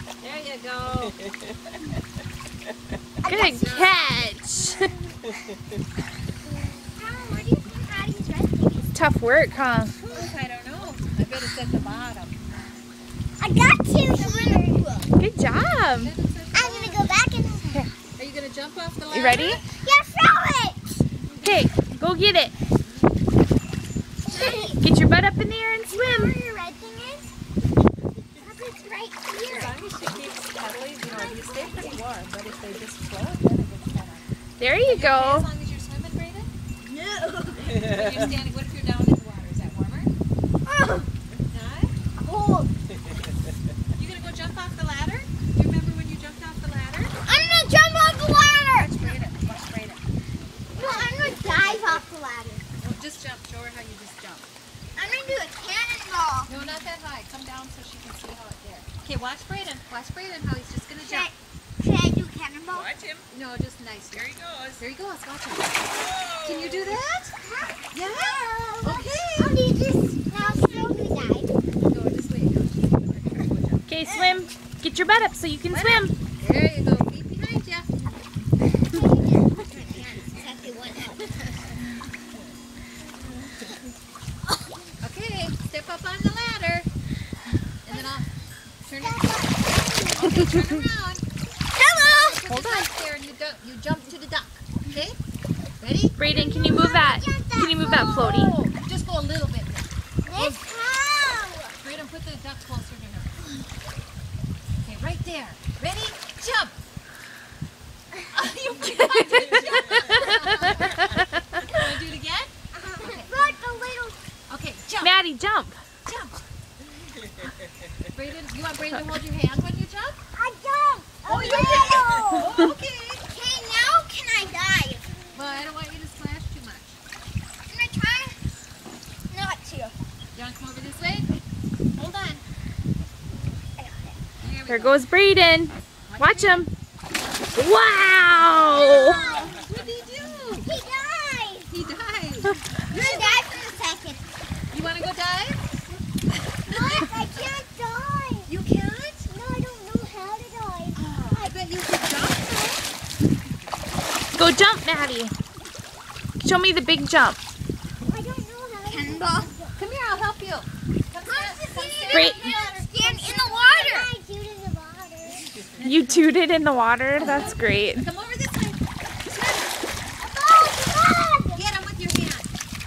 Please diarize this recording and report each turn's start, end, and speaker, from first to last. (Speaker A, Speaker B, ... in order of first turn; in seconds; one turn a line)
Speaker A: 0.2-1.1
Speaker B: 3.2-4.2
Speaker C: 3.2-4.9
Speaker B: 7.0-9.0
Speaker C: 8.9-9.9
Speaker A: 10.0-12.4
Speaker B: 13.4-15.0
Speaker A: 14.2-14.6
Speaker C: 15.2-16.1
Speaker A: 16.0-17.1
Speaker B: 16.5-17.9
Speaker A: 18.1-19.6
Speaker C: 19.1-19.6
Speaker B: 19.7-20.9
Speaker C: 21.4-22.5
Speaker B: 24.3-24.8
Speaker C: 24.3-26.4
Speaker B: 25.9-27.3
Speaker B: 28.4-29.7
Speaker A: 29.4-34.3
Speaker B: 31.1-31.9
Speaker C: 34.6-35.5
Speaker A: 34.8-36.5
Speaker B: 36.9-37.8
Speaker A: 37.7-40.1
Speaker B: 40.7-41.1
Speaker A: 41.5-42.0
Speaker B: 42.2-42.7
Speaker A: 44.0-47.2
Speaker B: 47.3-48.9
Speaker A: 48.7-50.0
Speaker B: 50.8-52.6
Speaker A: 50.8-52.0
Speaker A: 52.8-54.5
Speaker B: 55.0-56.5
Speaker A: 56.5-61.3
Speaker B: 61.0-62.9
Speaker D: 62.7-63.3
Speaker A: 63.3-65.9
Speaker D: 64.2-64.8
Speaker D: 66.2-66.6
Speaker A: 66.4-67.3
Speaker B: 67.4-71.5
Speaker A: 67.9-69.7
Speaker A: 70.3-71.0
Speaker A: 71.8-73.8
Speaker C: 73.9-76.1
Speaker B: 74.1-74.4
Speaker A: 75.7-77.9
Speaker B: 78.8-81.5
Speaker A: 79.6-80.5
Speaker A: 85.0-86.9
Speaker A: 87.8-88.3
Speaker A: 88.8-89.5
Speaker B: 89.0-90.4
Speaker A: 90.1-91.2
Speaker B: 91.7-92.4
Speaker A: 91.9-95.2
Speaker C: 92.5-92.9
Speaker A: 95.8-96.2
Speaker C: 96.2-98.5
Speaker B: 96.3-98.4
Speaker A: 98.2-100.6
Speaker B: 100.2-101.8
Speaker A: 101.8-103.3
Speaker A: 104.8-106.8
Speaker A: 108.3-111.1
Speaker C: 109.0-111.7
Speaker A: 111.7-113.5
Speaker B: 112.7-114.2
Speaker A: 114.5-115.2
Speaker C: 115.0-115.8
Speaker A: 116.0-116.3
Speaker A: 118.1-120.2
Speaker B: 120.3-122.7
Speaker A: 121.3-123.2
Speaker D: 121.7-122.0
Speaker B: 123.2-125.5
Speaker A: 125.3-127.0
Speaker B: 127.7-128.4
Speaker B: 129.3-129.9
Speaker A: 130.3-131.3
Speaker A: 131.9-132.4
Speaker B: 133.8-134.2
Speaker A: 134.4-135.0
Speaker C: 134.7-136.7
Speaker A: 136.1-136.7
Speaker C: 137.5-139.2
Speaker A: 138.4-140.7
Speaker B: 138.6-139.6
Speaker B: 140.6-141.7
Speaker A: 141.7-143.6
Speaker B: 142.9-144.3
Speaker A: 144.7-145.7
Speaker A: 146.7-147.5
Speaker B: 146.7-148.5
Speaker A: 148.5-149.3
Speaker B: 149.3-151.6
Speaker A: 150.9-152.9
Speaker C: 154.3-155.3
Speaker C: 156.4-157.4
Speaker B: 158.0-159.8
Speaker D: 158.8-159.5
Speaker A: 159.8-164.1
Speaker B: 161.3-165.5
Speaker C: 162.1-162.6
Speaker C: 165.8-168.1
Speaker A: 167.2-169.9
Speaker B: 167.2-167.5
Speaker B: 170.2-171.6
Speaker A: 171.5-172.5